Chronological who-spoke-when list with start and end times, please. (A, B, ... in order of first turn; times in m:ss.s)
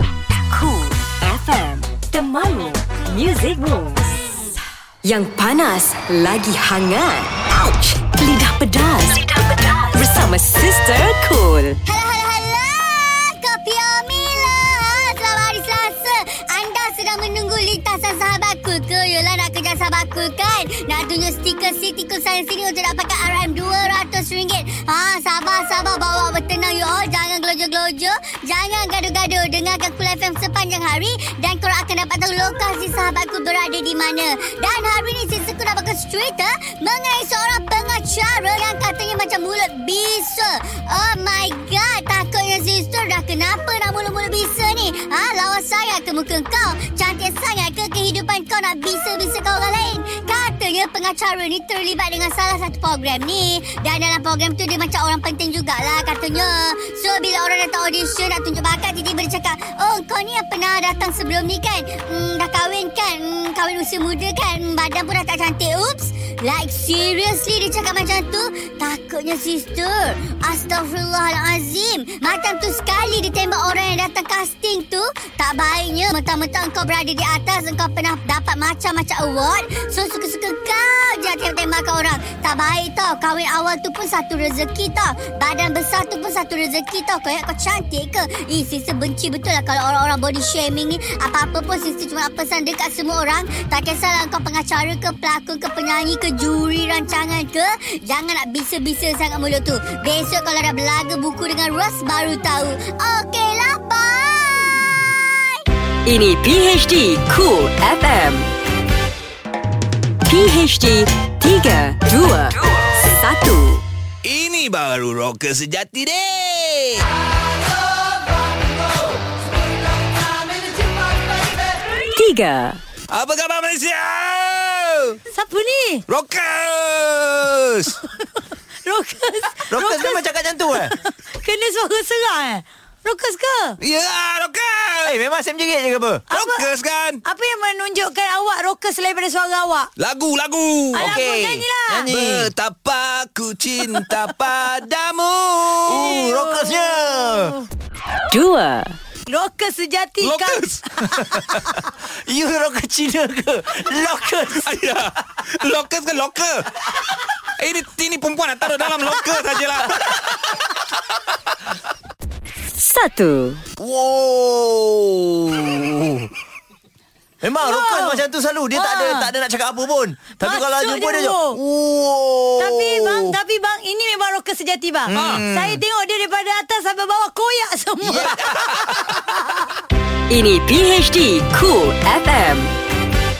0:00.5-0:04.2 A
0:05.0-0:11.8 A
0:11.8-1:45.6 B
1:46.0-1:48.5 A
1:50.2-1:53.8 A
1:54.2-1:57.0 C
2:02.1-2:02.8 A
2:03.1-2:05.2 C
2:05.3-2:06.0 D
2:06.1-2:08.0 C
2:08.8-2:10.2 D
2:09.7-2:10.9 E
2:10.7-2:13.8 D
2:13.8-2:15.1 C
2:15.0-2:16.2 E
2:16.3-2:16.6 D
2:16.3-2:17.2 C
2:17.2-2:19.9 D
2:20.0-2:21.2 C
2:20.9-2:22.5 E
2:21.0-2:22.1 D
2:22.1-2:25.9 C
2:25.9-2:27.6 E
2:26.0-2:27.6 D
2:28.3-2:29.0 A
2:29.3-2:31.5 D
2:30.2-2:30.8 C
2:31.2-2:31.7 E
2:32.3-2:34.7 E
2:34.6-2:36.7 C
2:37.6-2:40.8 C
2:42.8-2:43.6 A
2:43.8-2:46.3 E
2:47.4-2:53.4 E
2:47.6-2:48.2 D
2:48.7-2:49.3 D
2:50.4-2:51.6 D
2:52.6-2:59.0 D
2:55.1-2:55.8 E
2:55.1-2:55.4 C
2:58.0-2:58.9 E
2:58.2-2:58.9 C
3:00.3-3:02.7 A